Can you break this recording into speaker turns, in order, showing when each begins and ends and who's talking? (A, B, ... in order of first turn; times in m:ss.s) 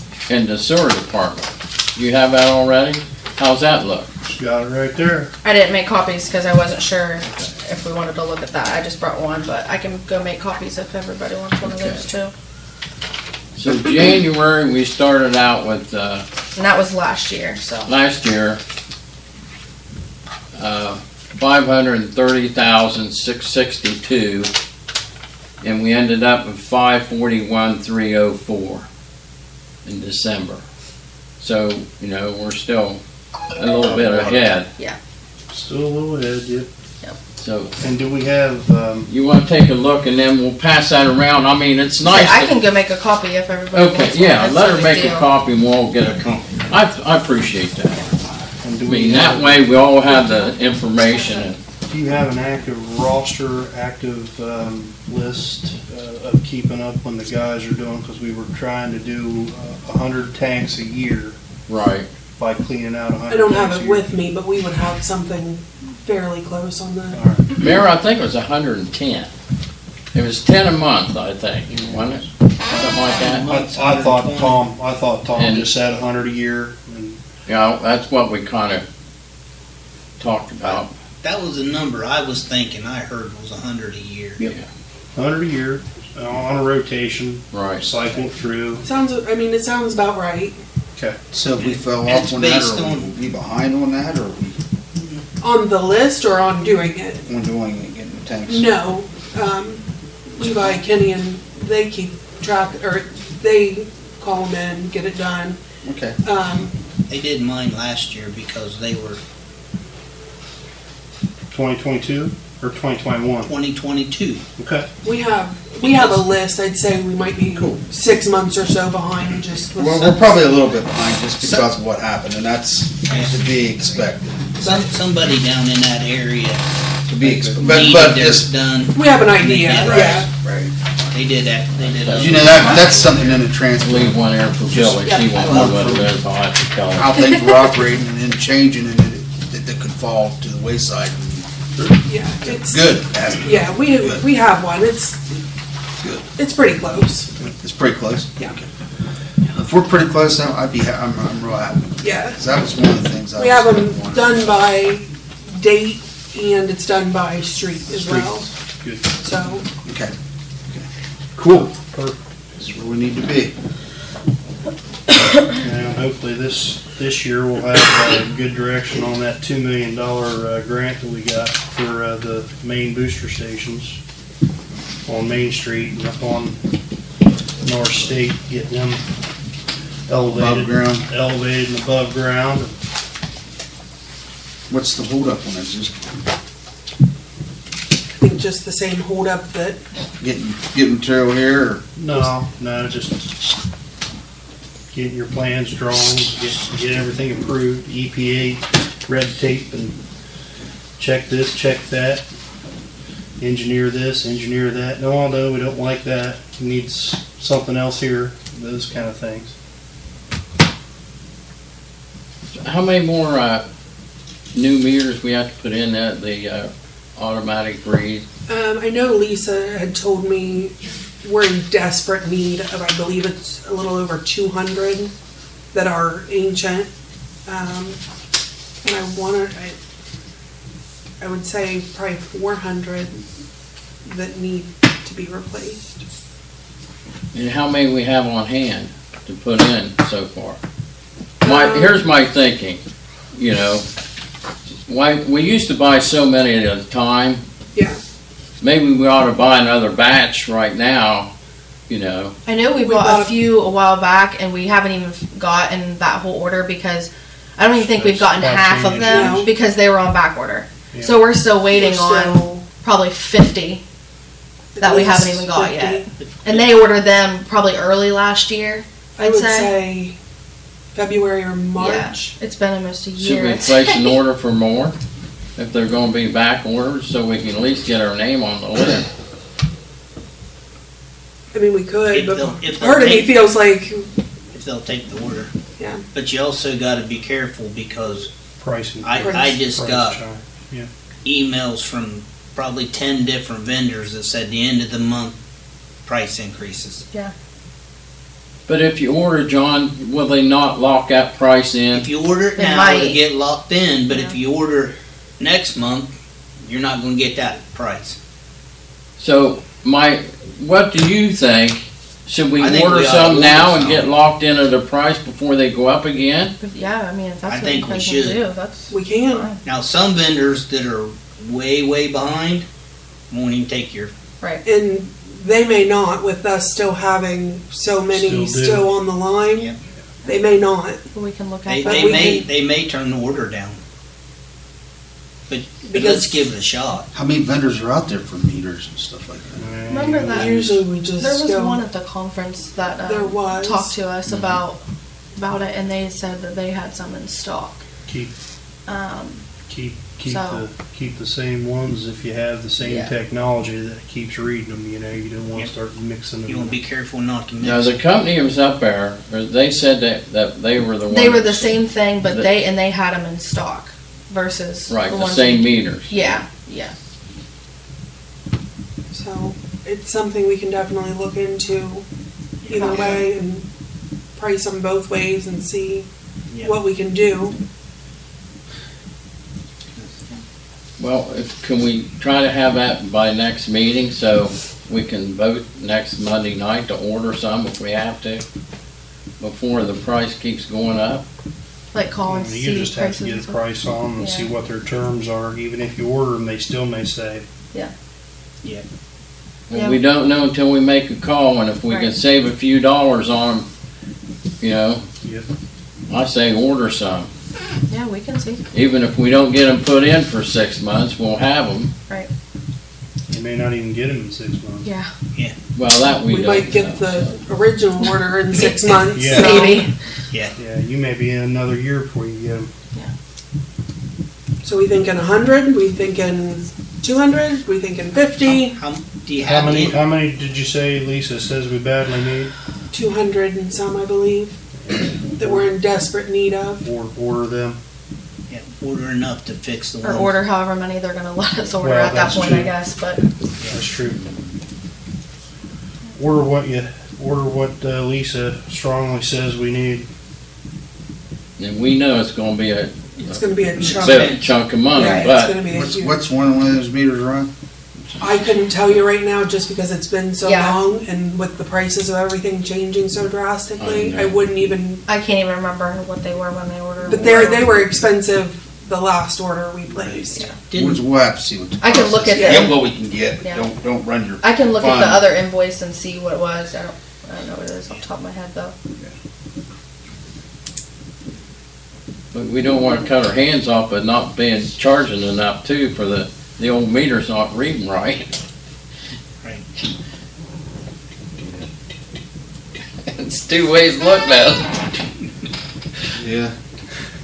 0:00.3-0:04.1 A
0:04.3-0:05.3 B
0:05.4-0:12.3 C
0:11.6-0:12.0 A
0:13.6-0:16.2 A
0:16.6-0:17.9 C
0:17.8-0:18.6 A
0:20.6-0:24.5 A
0:25.6-0:28.8 A
0:29.8-0:30.6 A
0:31.4-0:33.0 A
0:33.6-0:34.7 A
0:33.8-0:34.5 D
0:35.5-0:36.7 B
0:37.4-0:37.7 A
0:37.8-0:39.1 B
0:39.1-0:42.5 A
0:42.1-0:45.3 C
0:43.7-0:48.1 A
0:48.6-0:49.9 B
0:48.8-0:51.6 A
0:50.1-0:50.5 C
0:51.1-0:51.4 C
0:51.9-1:01.4 B
1:01.7-1:02.1 A
1:02.4-1:04.1 B
1:03.3-1:07.2 E
1:07.1-1:07.5 B
1:07.6-1:09.3 A
1:10.1-1:13.5 A
1:12.7-1:17.2 B
1:13.2-1:14.6 F
1:15.4-1:15.7 A
1:17.4-1:18.8 A
1:20.2-1:20.9 A
1:20.7-1:24.4 F
1:25.1-1:28.8 B
1:27.5-1:27.8 A
1:28.8-1:30.6 E
1:31.3-1:34.6 D
1:31.6-1:33.1 F
1:35.4-1:37.2 E
1:37.3-1:38.7 D
1:38.5-1:45.6 E
1:45.8-1:46.2 D
1:46.2-1:46.7 E
1:47.1-1:49.2 F
1:51.5-1:53.5 B
1:53.4-1:54.4 F
1:54.6-1:54.9 B
1:55.0-2:00.4 E
1:57.6-1:57.8 D
1:59.8-2:04.8 D
2:01.4-2:01.7 F
2:03.1-2:03.6 F
2:04.6-2:06.6 F
2:07.1-2:08.5 D
2:07.2-2:07.8 B
2:07.6-2:10.2 F
2:08.9-2:10.3 E
2:09.6-2:10.7 D
2:11.1-2:13.4 F
2:12.0-2:12.9 A
2:12.1-2:16.2 D
2:13.8-2:17.3 A
2:16.9-2:21.5 D
2:22.0-2:25.4 E
2:22.4-2:24.2 D
2:26.0-2:26.3 D
2:26.4-2:27.3 E
2:27.6-2:28.6 D
2:29.5-2:34.4 D
2:32.0-2:32.4 E
2:33.4-2:38.5 E
2:37.9-2:39.0 B
2:39.2-2:39.6 E
2:39.8-2:40.1 D
2:41.4-2:41.7 D
2:41.4-2:42.2 B
2:42.6-2:43.5 D
2:45.6-2:54.0 B
2:55.0-2:56.6 B
2:57.6-2:59.0 B
3:00.1-3:02.7 B
3:00.3-3:01.0 D
3:04.7-3:06.0 D
3:08.2-3:09.8 E
3:10.2-3:11.8 D
3:12.0-3:13.4 B
3:14.9-3:20.0 B
3:21.0-3:22.2 B
3:23.4-3:29.5 B
3:32.5-3:33.6 A
3:34.5-3:38.2 A
3:38.5-3:45.1 E
3:45.7-3:46.9 E
3:47.4-3:48.0 E
3:48.8-3:49.8 E
3:51.2-3:53.2 E
3:54.0-3:56.0 E
3:57.3-4:00.6 A
4:01.4-4:02.0 E
4:01.4-4:02.8 A
4:03.3-4:03.8 A
4:04.8-4:07.4 A
4:07.7-4:08.0 E
4:08.6-4:11.3 A
4:11.9-4:12.3 A
4:12.4-4:23.8 C
4:12.7-4:13.4 E
4:17.7-4:19.4 B
4:19.0-4:19.5 E
4:20.9-4:21.2 B
4:21.6-4:22.7 E
4:24.7-4:26.1 E
4:24.8-4:29.7 C
4:26.2-4:26.6 F
4:29.2-4:30.2 E
4:30.9-4:32.3 E
4:31.8-4:34.1 C
4:33.2-4:35.0 A
4:35.6-4:39.0 A
4:41.5-4:44.1 E
4:42.1-4:43.3 F
4:44.5-4:45.5 F
4:45.8-4:46.0 E
4:46.1-4:48.3 F
4:48.6-4:50.9 B
4:49.0-4:50.2 F
4:49.2-4:49.6 E
4:51.2-4:55.4 F
4:56.0-4:57.0 F
4:58.7-5:02.1 A
5:01.9-5:08.2 F
5:02.6-5:03.2 C
5:04.1-5:04.4 C
5:09.2-5:16.5 A
5:12.6-5:14.0 F
5:16.6-5:19.6 C
5:17.5-5:18.4 F
5:18.9-5:19.5 E
5:19.6-5:22.6 F
5:23.3-5:24.1 F
5:24.6-5:29.7 E
5:28.1-5:28.9 B
5:30.2-5:31.0 E
5:31.1-5:32.5 C
5:31.7-5:33.8 F
5:31.8-5:32.5 E
5:35.5-5:37.1 F
5:35.8-5:36.4 E
5:37.1-5:39.6 D
5:39.6-5:40.7 B
5:39.9-5:40.7 C
5:40.3-5:41.8 E
5:41.2-5:44.8 C
5:43.0-5:43.9 E
5:44.3-5:44.6 A
5:45.3-5:47.8 C
5:48.1-5:48.3 B
5:48.9-5:49.4 C
5:49.7-5:56.8 B
5:50.2-5:50.6 C
5:52.8-5:53.1 C
5:56.4-5:58.0 F
5:57.6-6:02.5 A
6:01.1-6:06.9 C
6:04.9-6:06.4 A
6:09.1-6:12.0 E
6:12.6-6:13.2 F
6:12.7-6:13.6 E
6:12.8-6:13.1 C
6:14.4-6:16.1 E
6:16.6-6:17.6 E
6:20.0-6:20.4 F
6:21.0-6:28.4 A
6:29.4-6:31.2 A
6:31.9-6:33.6 C
6:32.2-6:37.4 B
6:34.2-6:34.5 C
6:39.7-6:43.7 A
6:39.7-6:40.0 C
6:44.6-6:45.0 A
6:45.2-6:45.5 B
6:46.1-6:47.3 A
6:47.9-6:48.6 C
6:48.7-6:51.9 A
6:53.3-6:54.9 B
6:54.8-6:55.1 C
6:55.7-6:57.3 A
6:56.2-6:59.9 E
6:59.1-6:59.6 B
6:59.3-6:59.9 C
7:00.6-7:02.7 B
7:04.6-7:08.8 E
7:08.4-7:10.0 F
7:09.4-7:12.5 B
7:12.9-7:14.6 E
7:14.8-7:15.7 B
7:15.4-7:16.8 E
7:16.8-7:17.8 B
7:18.5-7:20.4 F
7:20.0-7:23.2 C
7:21.8-7:22.7 B
7:23.7-7:24.2 B
7:26.2-7:30.1 B
7:31.6-7:35.6 A
7:33.2-7:36.2 E
7:33.8-7:34.5 F
7:34.9-7:35.3 C
7:35.6-7:37.5 D
7:38.2-7:45.0 E
7:40.4-7:40.8 C
7:43.8-7:44.4 A
7:45.1-7:47.8 C
7:47.0-7:50.5 E
7:50.7-7:51.0 F
7:50.7-7:55.3 D
7:51.8-7:52.8 C
7:52.3-7:52.7 E
7:53.4-7:53.7 C
7:54.4-7:58.7 C
8:02.3-8:08.3 A
8:13.0-8:14.8 A
8:16.1-8:16.5 D